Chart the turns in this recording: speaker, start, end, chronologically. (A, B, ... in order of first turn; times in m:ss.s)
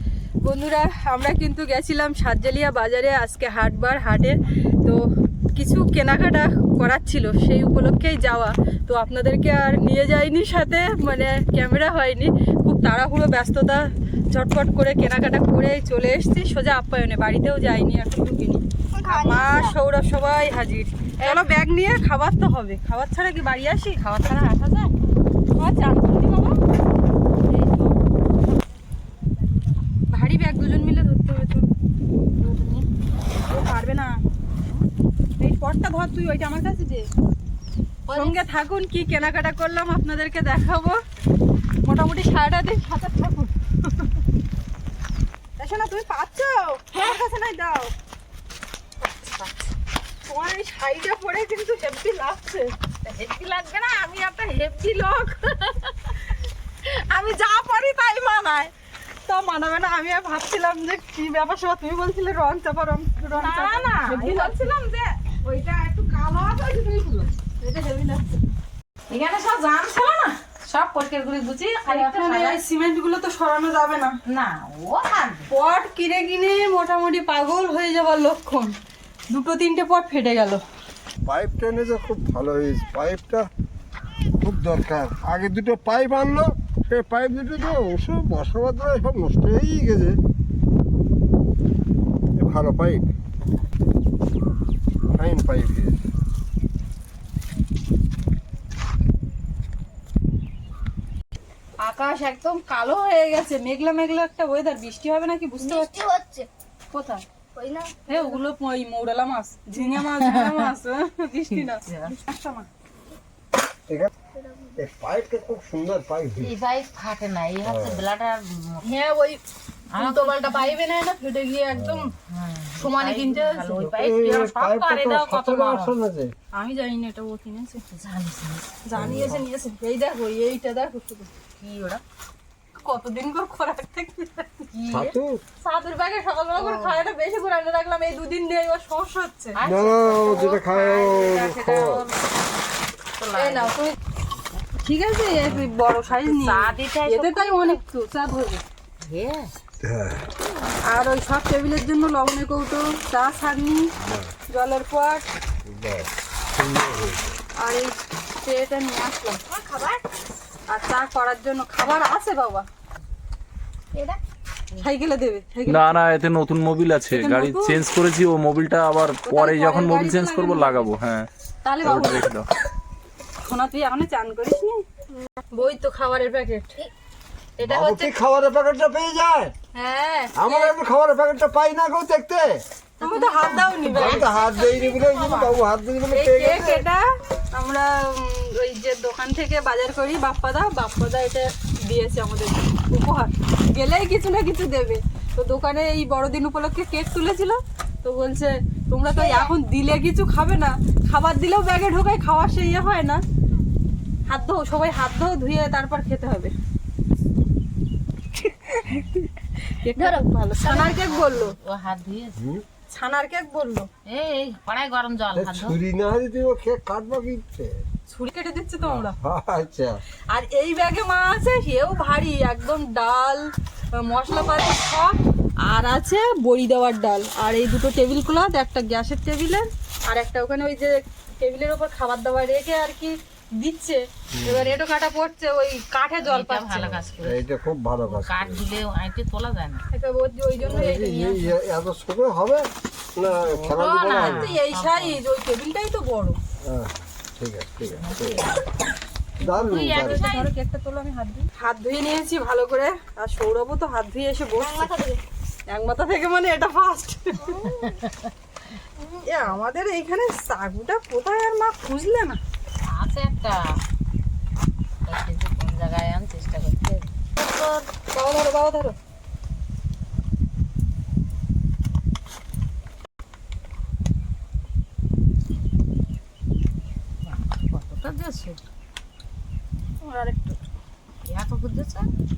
0:00.4-0:05.0 A
0:05.6-0:24.0 A
0:19.1-0:19.6 B
0:24.0-0:24.9 C
0:25.5-0:26.6 A
0:27.5-0:28.0 A
0:30.1-0:31.7 A
0:32.4-0:32.9 A
0:33.5-0:34.2 A
0:35.4-0:37.1 A
0:38.1-0:38.4 C
0:38.1-0:41.0 A
0:41.8-0:44.1 A
0:45.6-0:47.9 A
0:49.0-0:49.5 A
0:50.2-0:52.7 A
0:53.0-0:56.2 C
0:57.1-0:58.7 A
0:59.3-1:06.7 A
1:03.3-1:04.6 C
1:06.3-1:07.2 C
1:07.5-1:08.6 A
1:09.1-1:12.6 C
1:11.9-1:14.2 A
1:14.3-1:15.5 C
1:15.5-1:18.7 A
1:19.3-1:20.6 A
1:21.2-1:23.5 D
1:24.4-1:30.2 D
1:32.4-1:33.1 D
1:35.1-1:36.0 D
1:41.8-1:46.0 A
1:45.6-1:46.5 B
1:46.9-1:47.2 A
1:47.6-1:48.3 B
1:48.1-1:52.7 A
1:50.2-1:50.7 C
1:51.6-1:52.1 C
1:54.4-1:54.7 B
1:54.8-1:56.6 D
1:56.4-1:58.8 C
1:57.6-1:58.0 D
1:58.8-1:59.4 A
1:59.9-2:00.8 C
2:00.0-2:02.1 A
2:01.8-2:02.1 D
2:02.1-2:06.0 C
2:02.8-2:03.7 A
2:03.6-2:06.3 D
2:06.5-2:07.8 A
2:07.9-2:08.8 C
2:08.8-2:11.3 A
2:09.0-2:09.4 D
2:11.6-2:12.0 C
2:12.8-2:14.7 A
2:14.7-2:15.2 C
2:14.9-2:15.4 D
2:15.6-2:19.6 A
2:16.6-2:17.0 C
2:19.6-2:22.2 C
2:19.6-2:22.0 D
2:23.2-2:23.8 C
2:23.4-2:23.9 A
2:24.8-2:28.6 A
2:26.1-2:27.8 C
2:29.0-2:29.5 C
2:29.8-2:30.2 D
2:30.9-2:33.9 A
2:34.0-2:34.3 D
2:34.5-2:35.2 A
2:35.7-2:37.2 D
2:37.6-2:37.9 A
2:38.4-2:39.4 A
2:39.5-2:40.0 C
2:40.7-2:42.7 A
2:44.8-2:46.0 A
2:45.7-2:51.3 E
2:47.1-2:47.8 A
2:49.3-2:50.9 A
2:51.6-2:52.3 A
2:51.8-2:52.5 E
2:53.4-2:54.8 A
2:55.5-2:56.8 A
2:57.6-2:58.1 A
2:57.6-2:59.5 D
2:59.8-3:00.8 A
3:00.4-3:02.6 D
3:03.0-3:04.3 A
3:03.0-3:05.6 C
3:03.7-3:06.8 D
3:06.1-3:23.2 A
3:24.3-3:26.5 A
3:29.7-3:31.6 A
3:30.0-3:30.3 B
3:30.7-3:32.4 C
3:32.4-3:32.6 D
3:32.9-3:33.9 A
3:34.1-3:35.8 C
3:35.3-3:37.8 D
3:38.1-3:39.2 A
3:39.1-3:40.0 D
3:40.3-3:57.0 A
3:54.4-3:54.7 D
3:56.2-3:57.5 C
3:56.9-3:58.6 D
3:58.0-3:59.8 C
3:59.9-4:01.5 A
4:00.6-4:04.5 D
4:03.2-4:05.2 C
4:04.2-4:06.4 A
4:06.6-4:08.5 D
4:07.9-4:08.6 C
4:09.4-4:10.5 C
4:09.4-4:10.3 D
4:09.8-4:14.9 A
4:15.7-4:17.6 A
4:17.6-4:18.4 C
4:19.2-4:22.4 A
4:22.8-4:23.6 C
4:25.1-4:27.8 C
4:28.1-4:29.0 A
4:37.2-4:38.6 C
4:40.0-4:40.6 A
4:41.2-4:42.1 C